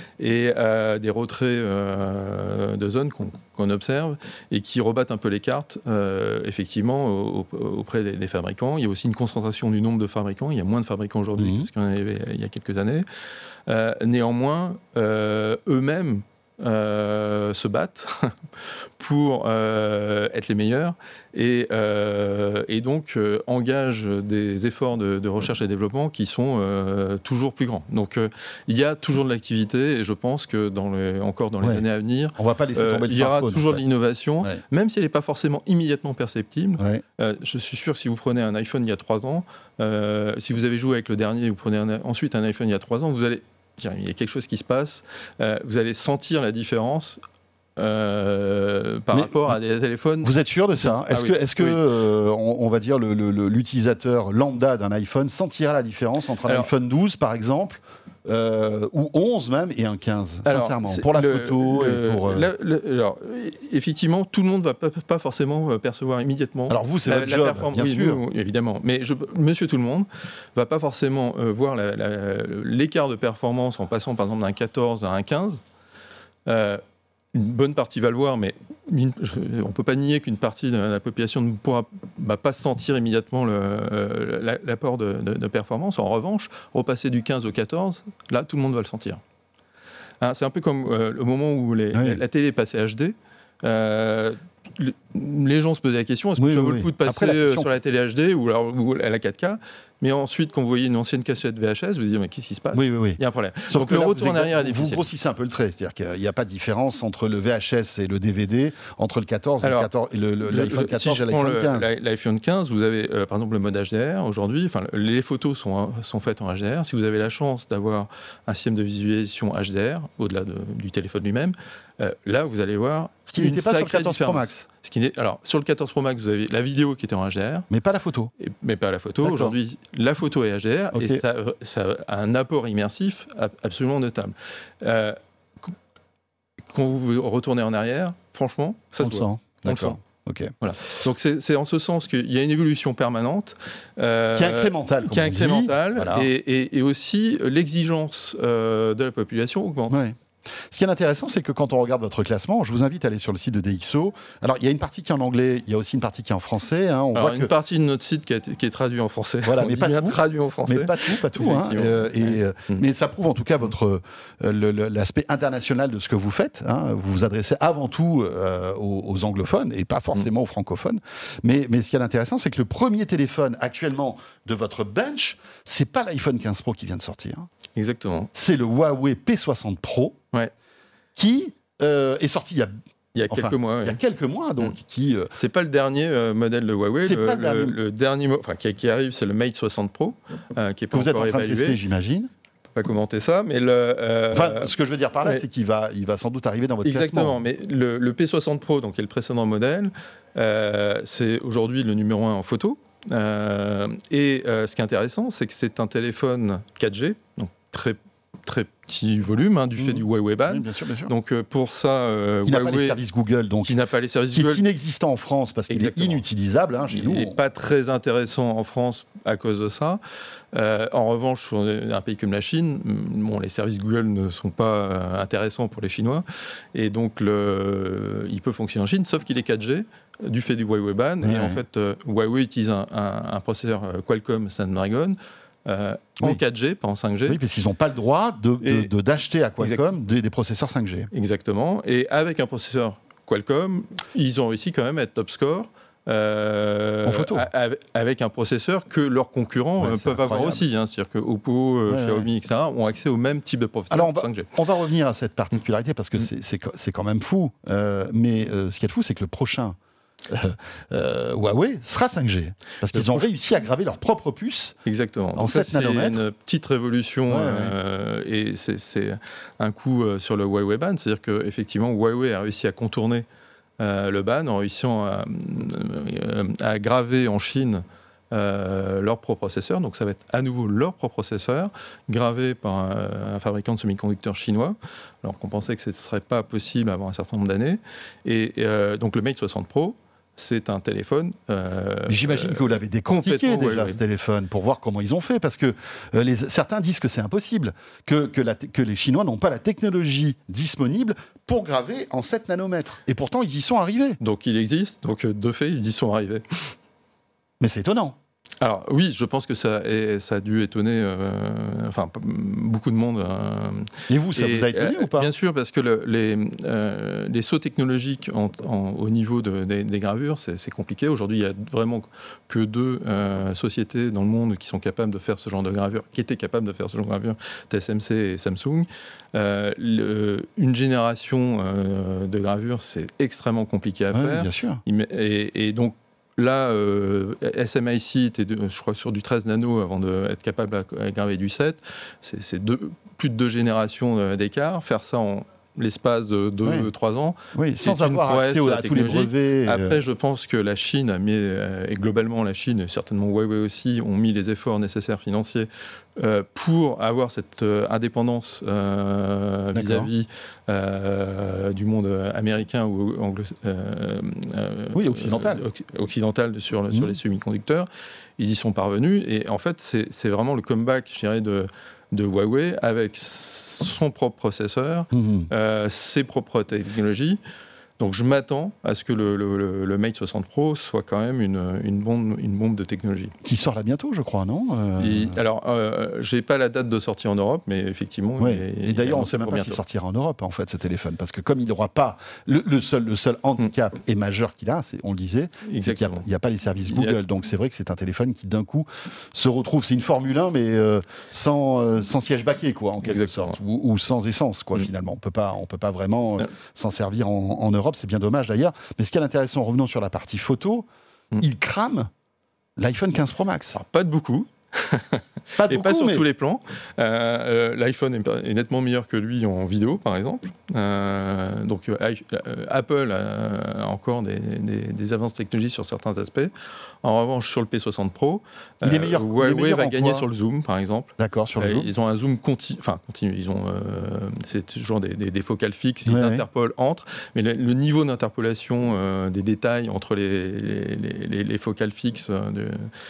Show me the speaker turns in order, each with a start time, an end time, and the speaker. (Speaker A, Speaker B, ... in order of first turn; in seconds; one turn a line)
Speaker A: 0.2-13.0
Speaker B: 11.4-11.7
Speaker A: 13.7-18.4
Speaker A: 19.0-47.2
Speaker B: 32.4-33.8
Speaker A: 47.8-51.8
Speaker B: 49.1-49.5
Speaker B: 50.2-62.5
Speaker A: 60.4-75.6
Speaker B: 66.7-68.2
Speaker A: 76.4-76.8
Speaker A: 77.3-89.2
Speaker A: 90.2-105.1
Speaker B: 91.9-92.2
Speaker B: 96.4-97.7
Speaker B: 102.7-111.9
Speaker A: 109.6-109.9
Speaker A: 110.4-127.7
Speaker B: 123.3-124.6
Speaker B: 127.7-128.3
Speaker A: 128.4-135.7
Speaker B: 129.2-129.6
Speaker B: 130.9-131.2
Speaker A: 136.7-140.0
Speaker B: 139.0-140.5
Speaker A: 140.6-150.0
Speaker B: 144.3-146.3
Speaker B: 149.9-150.2
Speaker B: 150.7-157.5
Speaker A: 157.1-162.8
Speaker B: 159.4-177.5
Speaker A: 177.7-178.3
Speaker B: 178.3-180.2
Speaker B: 181.2-182.7
Speaker A: 183.1-184.0
Speaker B: 183.3-185.3
Speaker A: 185.3-191.8
Speaker B: 187.0-187.8
Speaker B: 190.9-192.3
Speaker A: 192.7-194.7
Speaker B: 194.3-197.4
Speaker A: 196.8-213.0
Speaker B: 209.8-211.1
Speaker B: 212.4-213.8
Speaker A: 213.6-214.6
Speaker B: 214.3-217.4
Speaker A: 215.7-216.2
Speaker A: 216.9-220.0
Speaker A: 220.5-237.4
Speaker B: 231.2-231.6
Speaker B: 237.3-241.1
Speaker A: 238.6-238.9
Speaker A: 241.1-254.5
Speaker B: 247.0-247.5
Speaker B: 249.8-250.6
Speaker B: 251.9-252.3
Speaker B: 253.9-259.8
Speaker B: 260.3-264.8
Speaker A: 262.9-263.3
Speaker A: 264.8-273.2
Speaker B: 265.4-266.2
Speaker B: 267.3-267.7
Speaker A: 273.8-294.0
Speaker B: 292.1-304.2
Speaker A: 304.2-306.7
Speaker B: 307.6-308.1
Speaker A: 308.6-377.4
Speaker B: 314.1-315.3
Speaker B: 334.1-334.8
Speaker B: 346.6-346.9
Speaker B: 347.5-350.0
Speaker B: 359.7-360.1
Speaker B: 364.9-365.6
Speaker B: 366.9-367.2
Speaker B: 375.1-375.5
Speaker A: 378.0-383.3
Speaker B: 383.4-385.4
Speaker A: 385.0-389.8
Speaker B: 388.4-410.9
Speaker A: 395.6-396.2
Speaker A: 396.8-397.2
Speaker A: 403.0-403.6
Speaker B: 411.4-412.1
Speaker B: 412.8-413.8
Speaker A: 413.7-426.5
Speaker B: 415.6-416.2
Speaker A: 427.0-442.9
Speaker B: 428.8-430.3
Speaker B: 431.2-431.9
Speaker B: 436.0-436.4